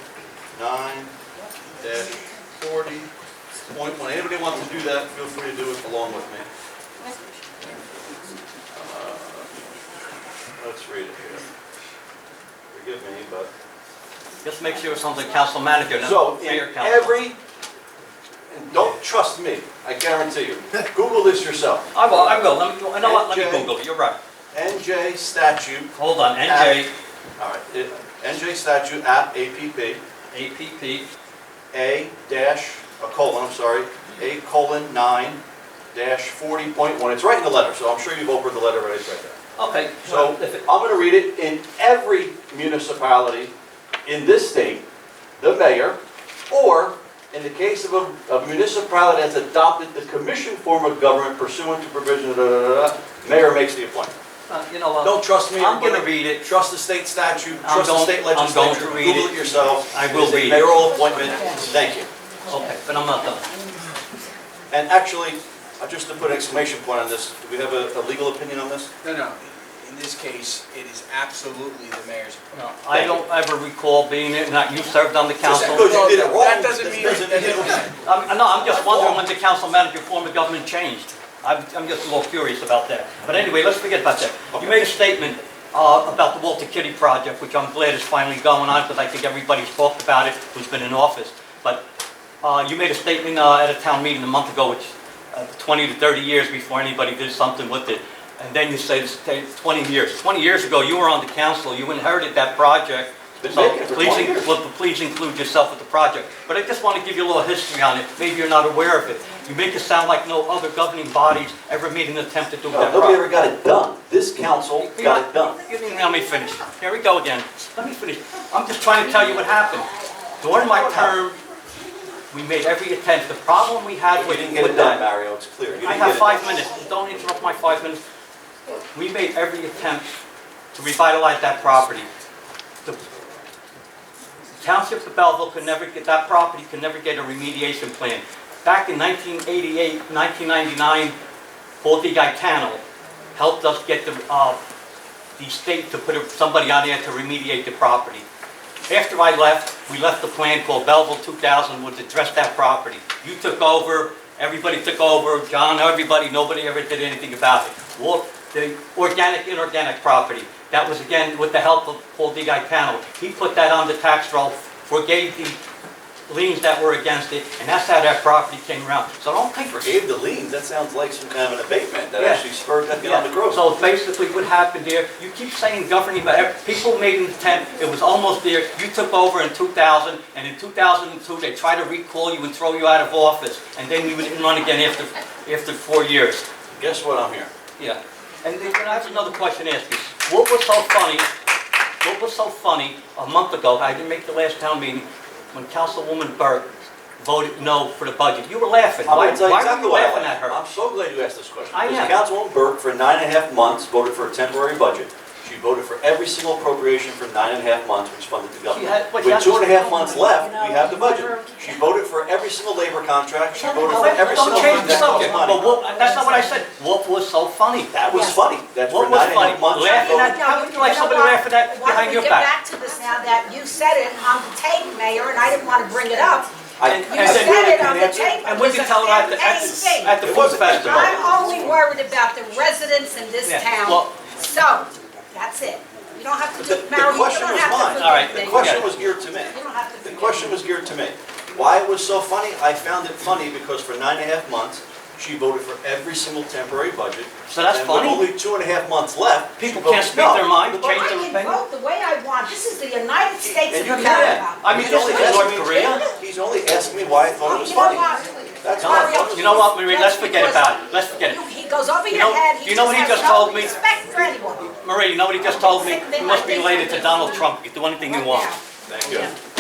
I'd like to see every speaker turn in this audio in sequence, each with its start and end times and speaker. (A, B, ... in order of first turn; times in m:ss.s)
0:00.6-0:01.1 A
0:01.8-0:03.1 A
0:03.6-0:06.4 A
0:08.7-0:09.5 A
0:10.6-0:11.5 A
0:12.7-0:13.5 A
0:14.4-0:17.2 B
0:16.0-0:17.4 A
0:18.5-0:22.4 A
0:21.9-0:24.2 B
0:23.0-0:23.7 A
0:24.5-0:25.9 A
0:26.0-0:26.9 B
0:26.4-0:30.0 A
0:30.3-0:31.1 B
0:31.7-0:35.4 A
0:35.9-0:39.4 A
0:39.6-0:40.6 B
0:40.0-0:43.5 A
0:44.0-0:44.8 A
0:45.4-0:46.0 A
0:46.5-0:54.1 A
0:54.5-0:56.4 B
0:55.0-1:02.1 A
0:57.6-0:59.4 B
0:59.9-1:00.8 B
1:00.9-1:01.5 C
1:01.2-1:01.7 D
1:02.5-1:03.4 B
1:04.7-1:08.9 A
1:09.0-1:12.6 C
1:12.5-1:16.0 B
1:12.9-1:13.2 A
1:15.4-1:18.0 C
1:15.5-1:17.9 A
1:18.0-1:31.8 B
1:18.8-1:19.2 A
1:32.4-1:53.2 B
1:43.4-1:44.5 A
1:52.7-1:55.6 A
1:54.8-1:59.9 B
2:00.4-2:01.4 B
2:00.5-2:01.2 A
2:02.3-2:05.0 B
2:04.1-2:06.4 A
2:05.8-2:08.0 B
2:08.9-2:10.1 B
2:10.7-2:12.1 B
2:14.6-2:21.2 B
2:21.8-2:22.8 B
2:23.4-2:24.6 B
2:25.4-2:28.2 B
2:28.9-2:45.6 B
2:46.3-2:50.0 B
2:49.7-2:53.6 A
2:52.2-2:52.4 B
2:53.0-3:06.5 B
3:06.7-3:07.5 A
3:07.8-3:11.3 B
3:12.0-3:20.6 B
3:19.1-3:35.7 A
3:21.7-3:22.1 B
3:28.7-3:29.7 B
3:29.6-3:31.7 D
3:33.6-3:36.5 D
3:33.7-3:38.0 B
3:37.9-3:40.3 A
3:38.1-3:38.4 D
3:38.8-3:42.5 B
3:39.7-3:46.5 D
3:46.8-3:47.9 A
3:46.8-3:51.2 B
3:47.0-3:50.2 D
3:50.2-3:51.6 A
3:50.7-3:58.9 D
3:53.4-3:54.3 B
3:56.6-4:11.1 A
3:58.0-3:58.9 B
3:59.4-4:00.5 D
4:07.5-4:08.3 B
4:09.6-4:11.6 B
4:10.8-4:16.0 D
4:13.4-4:19.7 A
4:13.8-4:16.0 B
4:17.4-4:24.7 D
4:18.8-4:21.4 B
4:22.1-4:23.8 B
4:24.8-4:28.6 B
4:25.5-4:27.5 D
4:28.1-4:29.3 D
4:28.9-4:29.3 A